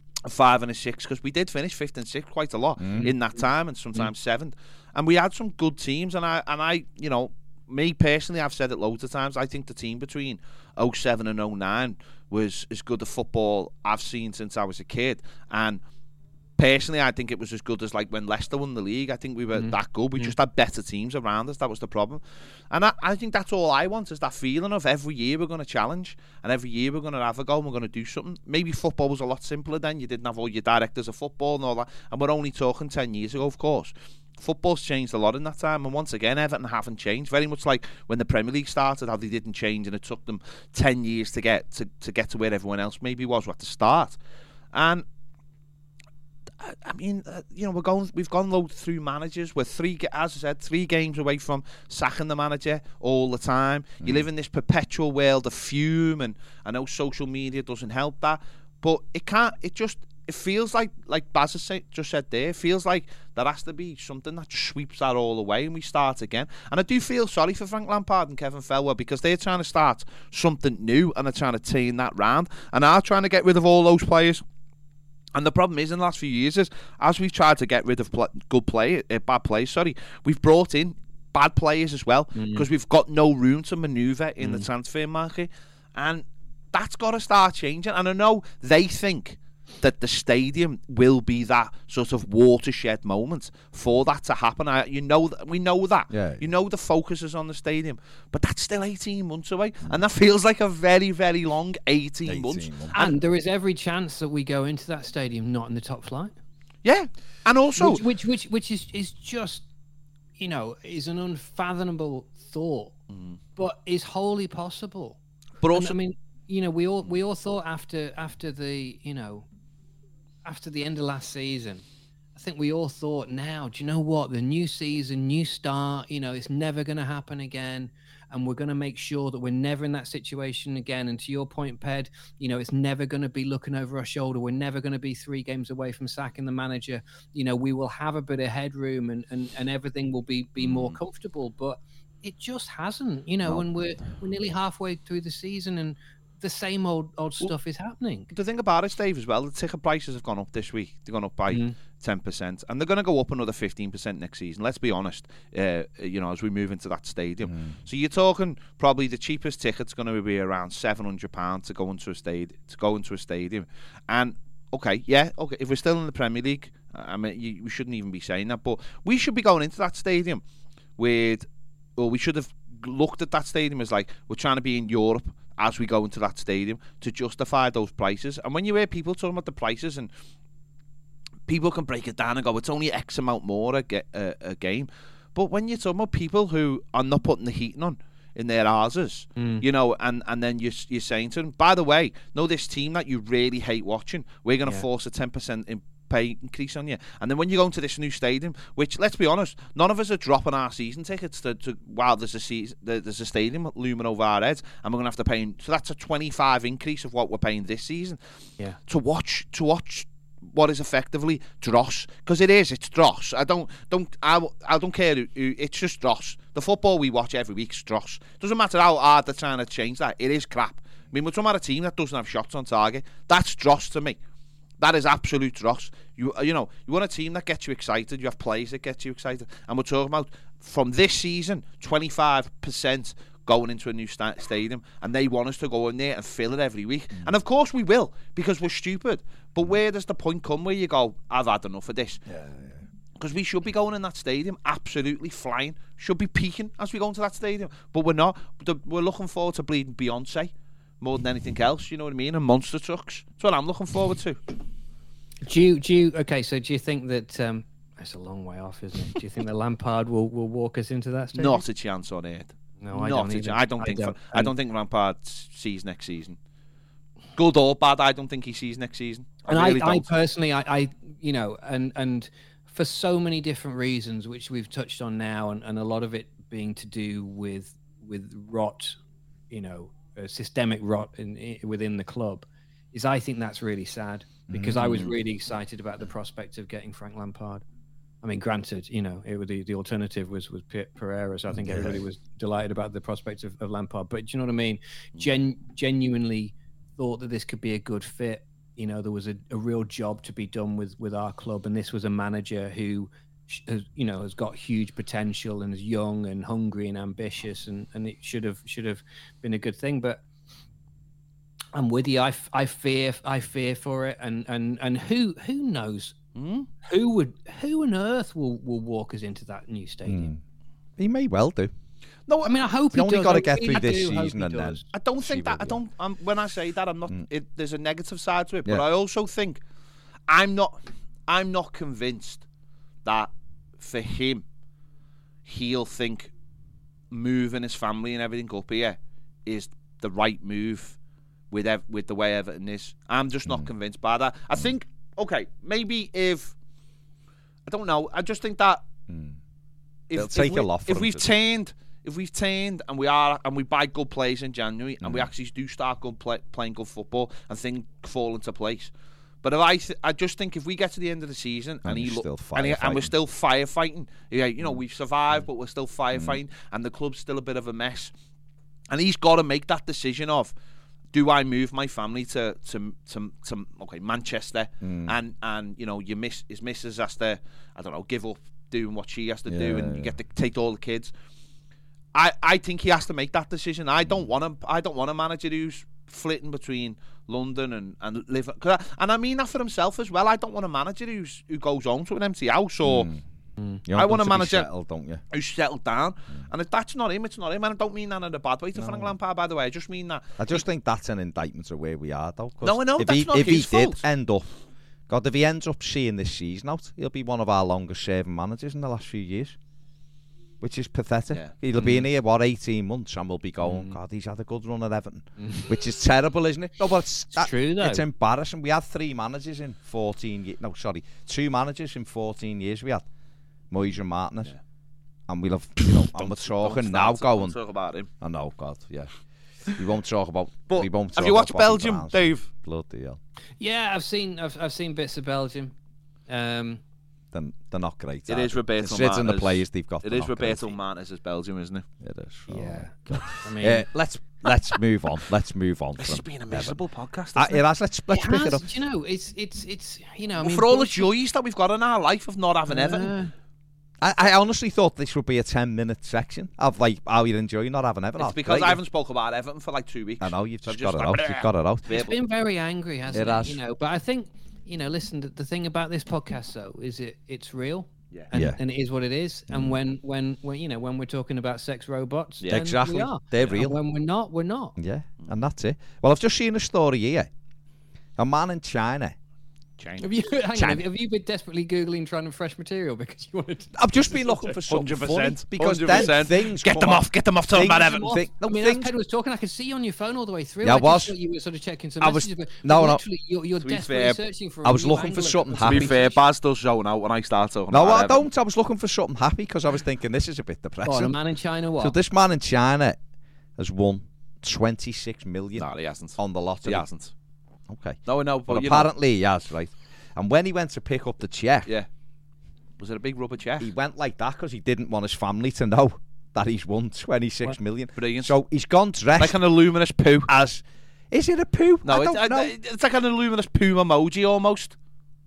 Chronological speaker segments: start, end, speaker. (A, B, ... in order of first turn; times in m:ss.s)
0:00.2-0:15.8 A
0:02.8-0:03.1 B
0:16.6-0:44.2 A
0:19.6-0:20.3 C
0:44.7-0:45.0 A
0:46.6-1:14.4 A
1:15.3-1:43.1 A
1:22.4-1:22.7 C
1:24.4-1:24.7 C
1:36.1-1:36.5 B
1:42.3-1:42.9 B
1:42.9-1:46.3 C
1:46.8-1:48.0 A
1:47.8-1:49.7 C
1:50.4-1:53.0 C
1:53.1-1:53.4 A
1:53.6-1:55.2 C
1:55.6-1:56.0 A
1:55.7-1:59.5 C
2:00.4-2:28.3 C
2:20.6-2:21.0 A
2:28.3-2:50.4 A
2:31.5-2:31.8 C
2:37.5-2:37.8 B
2:51.0-3:00.1 A
3:01.5-3:28.2 A
3:09.4-3:09.6 C
3:28.9-3:44.2 A
3:44.8-4:02.2 A
4:02.3-4:02.9 B
4:03.2-4:14.4 A
4:15.4-4:21.6 C
4:21.4-4:26.4 A
4:22.8-4:24.5 C
4:27.4-4:30.1 A
4:29.5-4:39.0 C
4:39.5-4:47.6 C
4:44.5-4:45.1 B
4:48.2-5:10.2 C
4:51.6-4:52.0 B
5:11.7-5:16.2 C
5:16.4-5:16.7 A
5:16.8-5:20.3 C
5:20.1-5:20.4 B
5:21.0-5:21.7 B
5:22.3-5:22.6 A
5:22.4-5:24.9 C
5:22.9-5:25.8 B
5:24.9-5:29.6 A
5:30.3-5:32.4 A
5:33.0-5:34.4 A
5:35.5-5:36.3 A
5:37.1-5:41.0 A
5:41.5-5:46.6 A
5:47.7-5:48.8 A
5:49.1-5:49.4 B
5:50.1-5:58.9 A
5:50.1-5:51.3 B
5:55.0-5:55.3 B
5:59.4-6:08.1 A
6:01.8-6:03.1 B
6:08.9-6:10.5 A
6:11.1-6:21.1 A
6:14.8-6:15.2 B
6:19.5-6:20.1 B
6:22.1-6:33.1 A
6:32.8-6:33.2 B
6:33.9-6:35.2 B
6:33.9-6:34.7 A
6:35.3-6:40.6 A
6:38.8-6:39.2 B
6:40.4-6:44.5 B
6:42.6-6:44.0 A
6:45.1-6:49.6 B
6:50.6-7:03.1 B
6:51.8-6:52.0 C
6:53.6-6:54.0 C
6:55.4-6:55.7 C
6:57.4-6:58.0 C
7:03.7-7:04.5 B
7:05.3-7:07.6 B
7:05.8-7:08.1 A
7:08.2-7:09.2 B
7:09.8-7:13.2 B
7:10.7-7:12.5 A
7:13.6-7:15.7 C
7:16.3-7:16.8 C
7:17.3-7:20.7 B
7:18.3-7:21.9 A
7:22.0-7:26.8 B
7:22.5-7:23.9 C
7:26.0-7:27.6 A
7:27.4-7:28.7 B
7:28.1-7:31.1 C
7:30.4-7:33.1 A
7:32.7-7:33.3 C
7:34.0-7:38.8 B
7:38.2-7:42.1 A
7:40.2-7:42.1 B
7:41.9-7:54.8 C
7:43.1-7:43.6 B
7:48.3-7:48.6 B
7:49.5-7:49.8 B
7:52.5-7:53.8 B
7:54.8-7:57.3 B
7:58.2-7:59.2 B
7:59.8-8:00.1 A
8:00.0-8:04.6 C
8:00.6-8:00.8 B
8:03.8-8:08.9 B
8:04.7-8:08.1 A
8:07.6-8:16.2 C
8:10.6-8:11.2 B
8:12.0-8:13.0 B
8:13.6-8:14.2 A
8:14.6-8:16.0 B
8:15.6-8:18.3 A
8:17.7-8:21.2 B
8:20.8-8:22.0 C
8:21.8-8:23.0 B
8:23.6-8:26.9 B
8:25.6-8:27.1 A
8:27.7-8:31.7 B
8:28.1-8:28.9 A
8:32.8-8:33.7 A
8:33.6-8:39.4 B
8:38.0-8:38.3 A
8:39.2-8:40.3 A
8:40.3-8:42.5 B
8:41.8-8:44.8 A